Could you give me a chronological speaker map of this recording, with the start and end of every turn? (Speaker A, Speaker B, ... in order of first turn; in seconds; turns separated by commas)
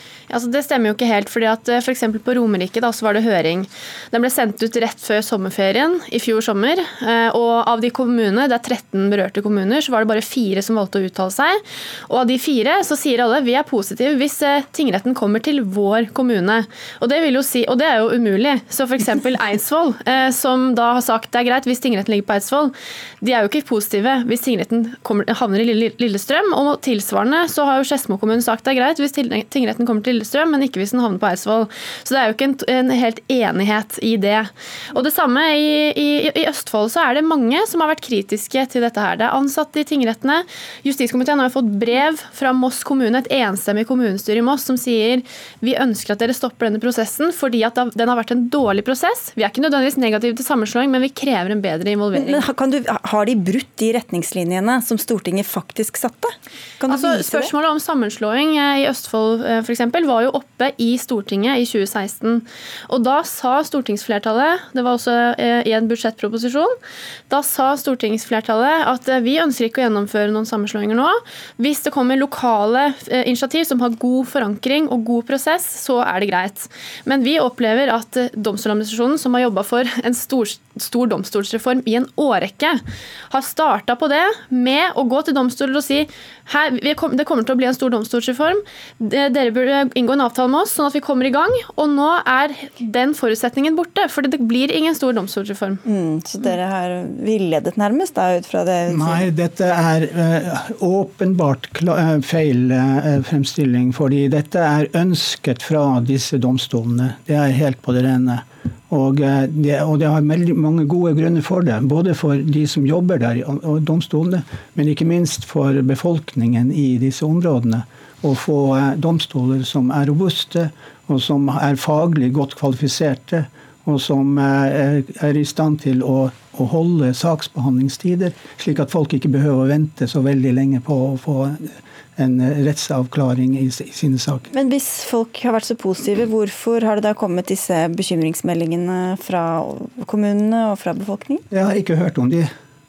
Speaker A: 0.3-52.4, Speaker B: 52.1-57.5, Speaker A: 56.8-66.7, Speaker A: 67.3-95.8, Speaker B: 95.8-99.2, Speaker C: 98.9-134.5, Speaker B: 134.5-141.4, Speaker C: 141.5-142.5